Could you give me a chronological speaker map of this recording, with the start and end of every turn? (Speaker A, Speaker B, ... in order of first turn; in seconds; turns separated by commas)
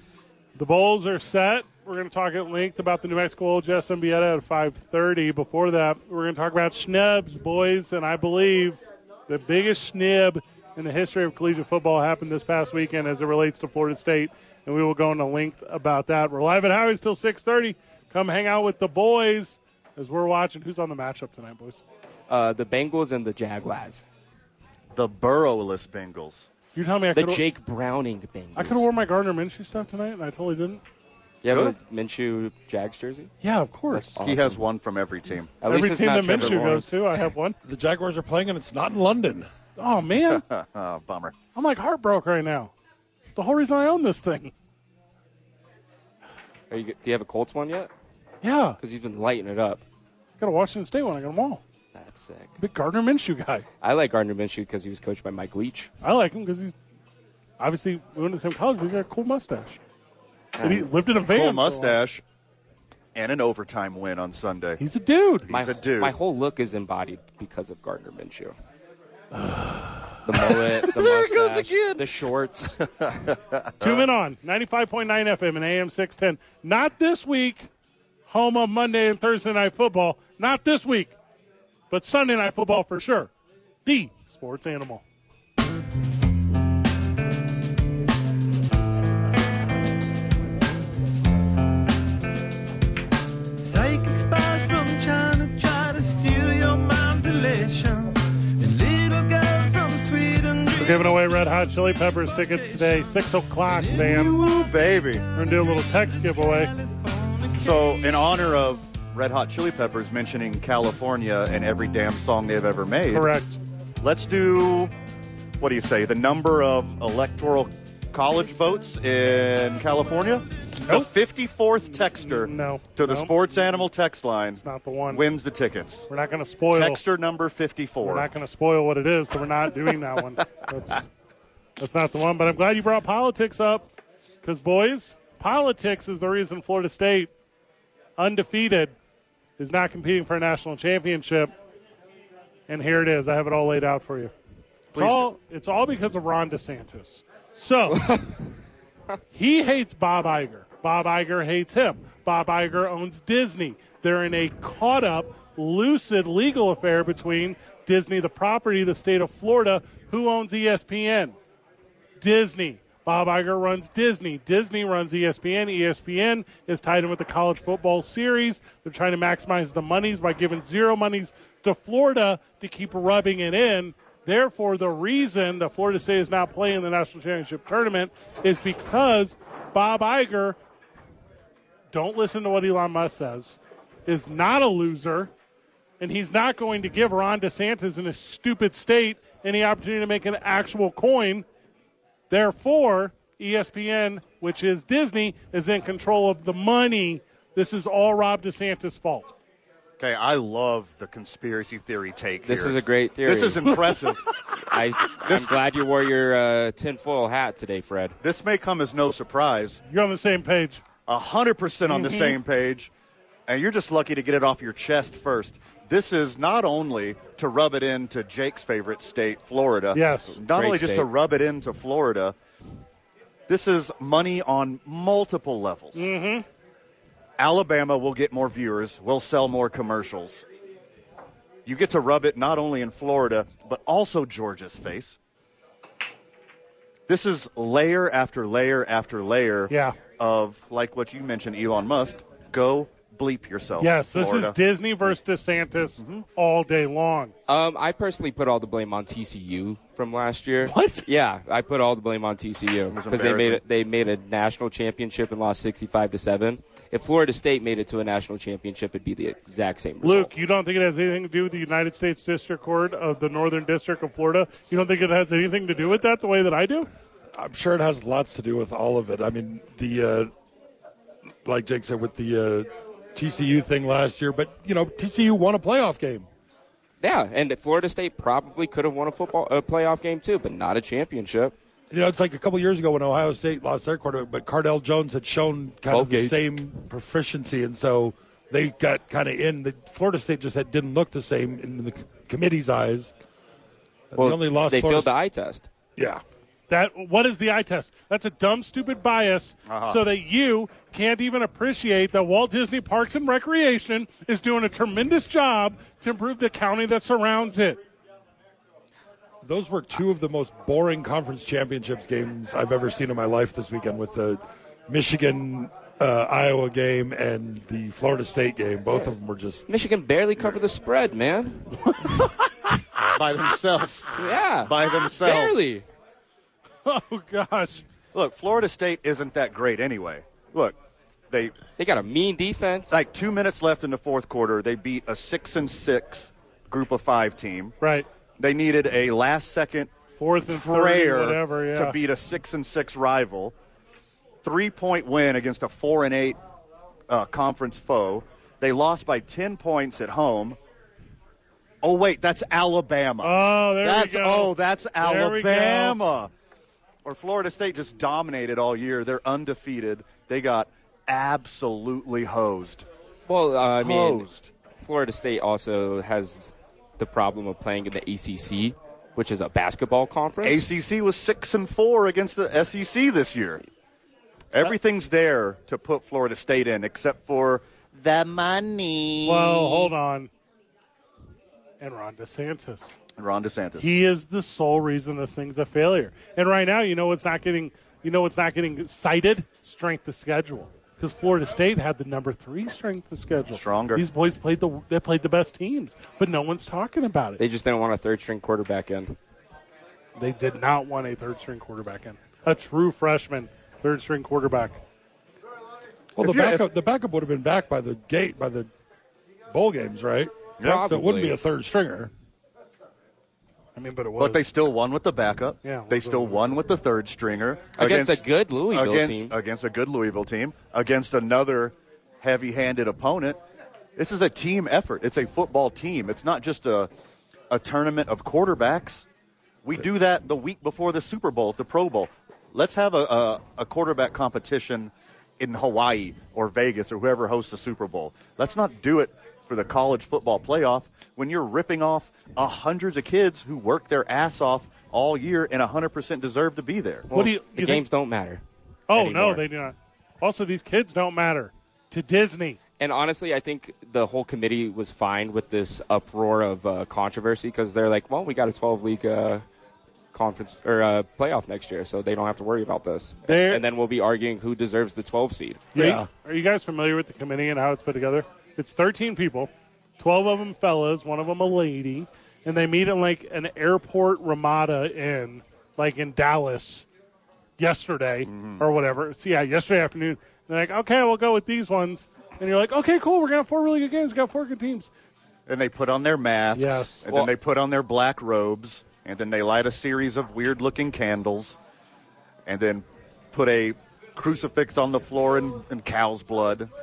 Speaker A: 0.5-21.8, Speaker B: 22.3-24.0, Speaker C: 24.9-26.5, Speaker A: 26.7-27.4, Speaker B: 27.1-28.9, Speaker A: 28.6-30.8, Speaker B: 31.4-33.3, Speaker C: 31.5-31.7, Speaker A: 33.4-34.2, Speaker B: 33.9-34.6, Speaker C: 34.2-35.5, Speaker B: 35.6-37.0, Speaker A: 35.6-37.6, Speaker D: 37.6-39.5, Speaker A: 39.8-40.4, Speaker C: 40.3-41.3, Speaker A: 41.5-42.7, Speaker A: 43.4-44.5, Speaker B: 46.7-47.9, Speaker A: 48.4-48.8, Speaker B: 48.8-49.8, Speaker A: 50.4-51.6, Speaker B: 51.9-52.5, Speaker A: 52.6-53.6, Speaker B: 53.8-55.9, Speaker A: 56.0-56.7, Speaker A: 57.6-59.8, Speaker B: 60.6-60.9, Speaker A: 60.6-62.0, Speaker C: 61.2-62.2, Speaker C: 63.1-64.8, Speaker A: 64.8-65.5, Speaker C: 65.5-66.1, Speaker B: 65.5-68.5, Speaker A: 69.3-70.0, Speaker B: 70.2-72.8, Speaker C: 70.6-72.0, Speaker C: 73.0-74.0, Speaker A: 73.8-77.7, Speaker A: 78.3-81.1, Speaker A: 81.9-83.3, Speaker A: 83.8-85.0, Speaker E: 93.6-108.3, Speaker A: 100.8-104.4, Speaker C: 104.2-105.2, Speaker A: 105.3-106.7, Speaker C: 107.5-113.3, Speaker A: 113.1-113.6, Speaker C: 114.0-114.9, Speaker C: 115.6-126.1, Speaker A: 120.8-121.1, Speaker A: 121.9-123.8, Speaker A: 124.6-125.2, Speaker A: 126.1-127.0, Speaker C: 126.7-128.3, Speaker A: 128.0-131.1, Speaker A: 131.8-133.9, Speaker A: 134.4-137.3, Speaker A: 138.2-138.9, Speaker A: 139.6-141.5, Speaker A: 142.7-144.3, Speaker C: 144.9-145.2, Speaker A: 144.9-148.1, Speaker B: 147.9-148.3, Speaker A: 149.3-161.3, Speaker A: 162.2-180.6, Speaker A: 181.9-185.3, Speaker A: 186.0-191.4, Speaker A: 192.3-199.3, Speaker C: 200.0-204.2, Speaker B: 202.4-204.0, Speaker B: 204.7-208.2, Speaker C: 205.2-205.6, Speaker C: 208.2-209.8, Speaker A: 209.9-210.8, Speaker C: 211.1-212.9, Speaker A: 211.9-212.4, Speaker C: 213.5-222.3, Speaker A: 219.9-220.4, Speaker B: 220.5-221.1, Speaker C: 223.5-226.1, Speaker A: 225.9-226.4, Speaker C: 227.4-230.4, Speaker C: 231.6-235.2, Speaker C: 237.1-245.1, Speaker A: 239.7-240.0, Speaker A: 243.8-247.3, Speaker C: 246.0-246.2, Speaker B: 247.5-260.3, Speaker A: 250.6-251.1, Speaker C: 252.9-253.6, Speaker A: 260.0-266.9, Speaker D: 267.3-270.3, Speaker D: 271.4-276.3, Speaker B: 277.0-281.5, Speaker D: 281.9-293.1, Speaker B: 285.9-286.4, Speaker D: 294.1-295.1, Speaker B: 294.2-295.7, Speaker D: 295.9-296.2, Speaker A: 296.7-307.8, Speaker C: 299.7-300.0, Speaker D: 309.4-319.6, Speaker B: 319.7-322.1, Speaker C: 323.1-324.1, Speaker B: 324.2-325.8, Speaker C: 324.6-325.6, Speaker A: 326.8-327.8, Speaker C: 328.1-330.8, Speaker B: 331.8-333.0, Speaker C: 332.9-337.8, Speaker A: 337.8-338.1, Speaker C: 338.4-339.9, Speaker A: 340.2-342.0, Speaker C: 340.4-343.5, Speaker C: 344.4-346.4, Speaker C: 347.1-350.6, Speaker C: 351.8-356.3, Speaker A: 353.2-356.0, Speaker C: 357.0-362.9, Speaker B: 363.3-364.3, Speaker C: 363.8-364.5, Speaker B: 364.8-370.7, Speaker C: 370.4-373.6, Speaker C: 374.5-379.9, Speaker A: 379.2-380.3, Speaker A: 381.8-383.0, Speaker C: 383.2-383.9, Speaker A: 383.8-397.4, Speaker C: 393.5-394.0, Speaker B: 397.4-399.1, Speaker A: 400.1-404.8, Speaker D: 406.1-408.7, Speaker C: 406.2-406.6, Speaker D: 409.5-412.1, Speaker B: 410.6-411.4, Speaker A: 413.8-414.5, Speaker C: 414.2-423.4, Speaker A: 415.6-416.5, Speaker B: 417.8-419.3, Speaker C: 423.9-426.9, Speaker C: 427.5-429.1, Speaker C: 429.6-447.1, Speaker B: 447.1-449.4, Speaker A: 447.1-447.8, Speaker A: 448.9-452.6, Speaker B: 452.8-459.4, Speaker B: 460.1-465.7, Speaker A: 463.2-463.6, Speaker D: 465.7-466.1, Speaker A: 465.8-476.9, Speaker A: 477.6-484.9, Speaker C: 478.3-478.6, Speaker C: 485.5-491.6, Speaker A: 486.5-487.0, Speaker C: 492.4-496.7